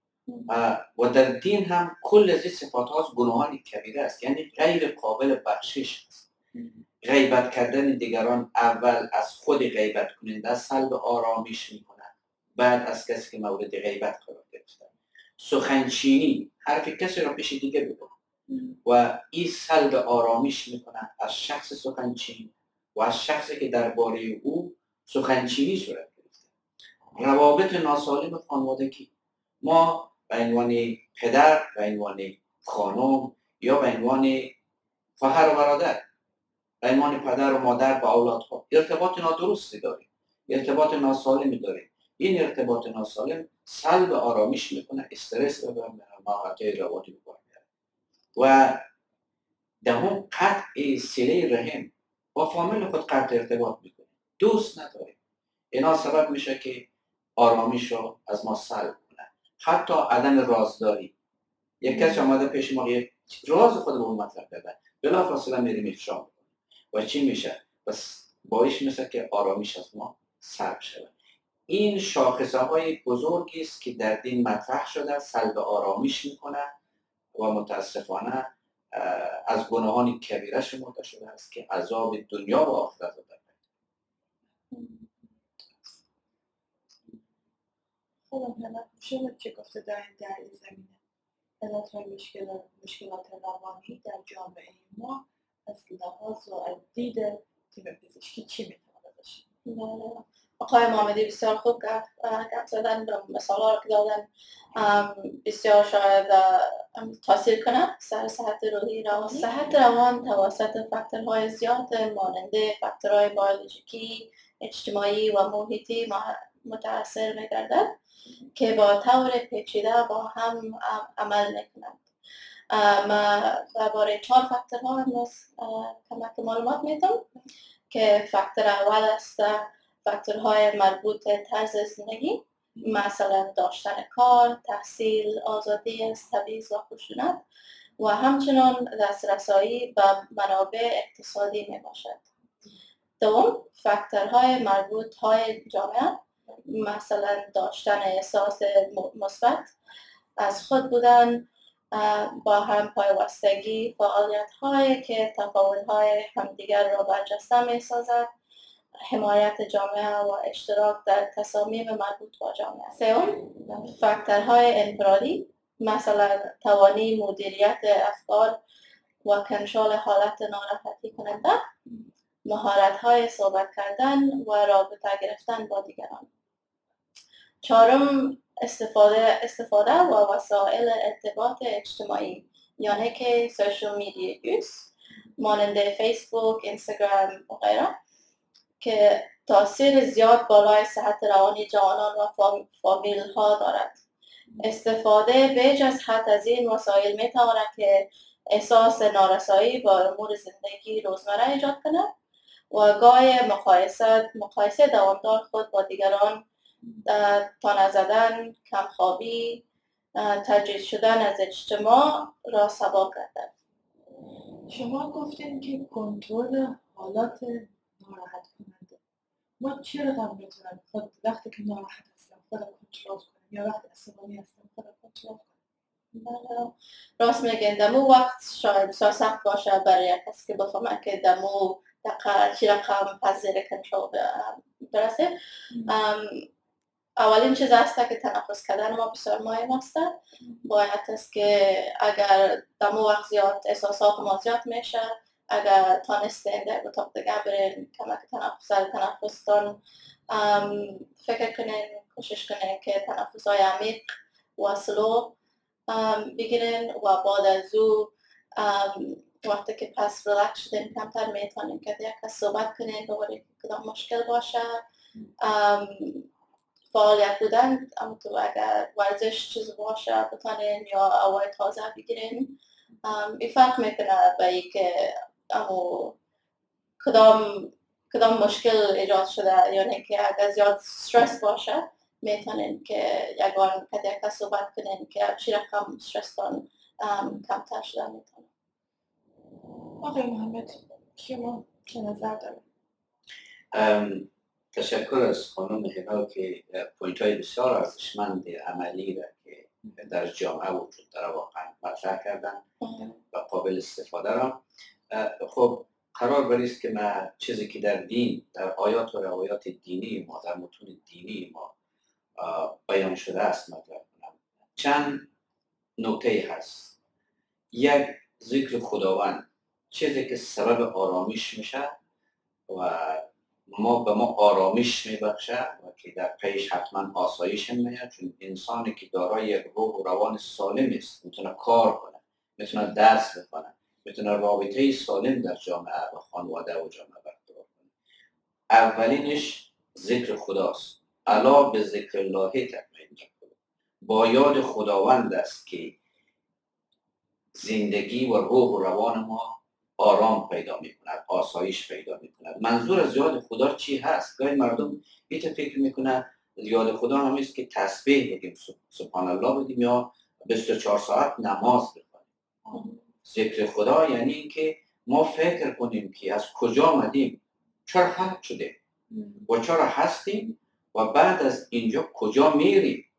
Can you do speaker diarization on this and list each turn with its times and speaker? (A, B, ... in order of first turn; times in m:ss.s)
0:00.5-0:06.3 A
0:07.0-0:18.1 A
0:18.5-0:18.8 B
0:18.8-0:26.5 A
0:27.2-0:29.1 A
0:29.6-0:34.5 A
0:35.2-0:36.0 A
0:36.8-0:47.6 A
0:48.4-0:48.8 A
0:49.8-0:55.2 A
0:55.7-0:56.8 A
0:57.4-1:01.1 A
1:01.8-1:06.4 A
1:06.9-1:11.1 A
1:11.7-1:16.6 A
1:17.3-1:23.5 A
1:28.3-1:31.0 B
1:31.6-1:39.4 B
1:39.6-1:57.9 C
1:49.2-1:49.5 B
1:58.5-2:02.0 C
2:02.7-2:07.2 C
2:07.9-2:17.4 C
2:12.8-2:13.0 B
2:18.0-2:22.2 C
2:23.2-2:29.7 C
2:30.4-2:38.3 C
2:39.1-2:48.6 C
2:43.4-2:43.9 B
2:49.2-2:51.6 C
2:52.4-2:56.3 C
2:57.6-3:07.9 C
3:08.8-3:14.0 C
3:14.6-3:22.1 C
3:22.7-3:26.4 C
3:27.0-3:29.6 C
3:30.2-3:33.5 C
3:34.7-3:39.0 B
3:39.6-3:45.6 B
3:46.1-3:55.3 C
3:55.9-3:56.4 C
3:57.2-4:09.8 C
4:10.3-4:15.3 C
4:15.9-4:24.8 C
4:25.4-4:26.3 C
4:26.9-4:36.1 C
4:37.0-4:48.5 C
4:50.0-4:52.6 B
4:53.7-5:02.6 A
5:02.8-5:03.2 C
5:03.3-5:11.7 A
5:12.4-5:15.3 A
5:16.0-5:16.9 A
5:17.7-5:21.9 A
5:22.7-5:37.9 A
5:38.7-5:46.0 A
5:47.5-6:02.2 A
6:02.7-6:03.0 B
6:03.2-6:08.8 A
6:09.1-6:09.4 B
6:09.5-6:13.1 A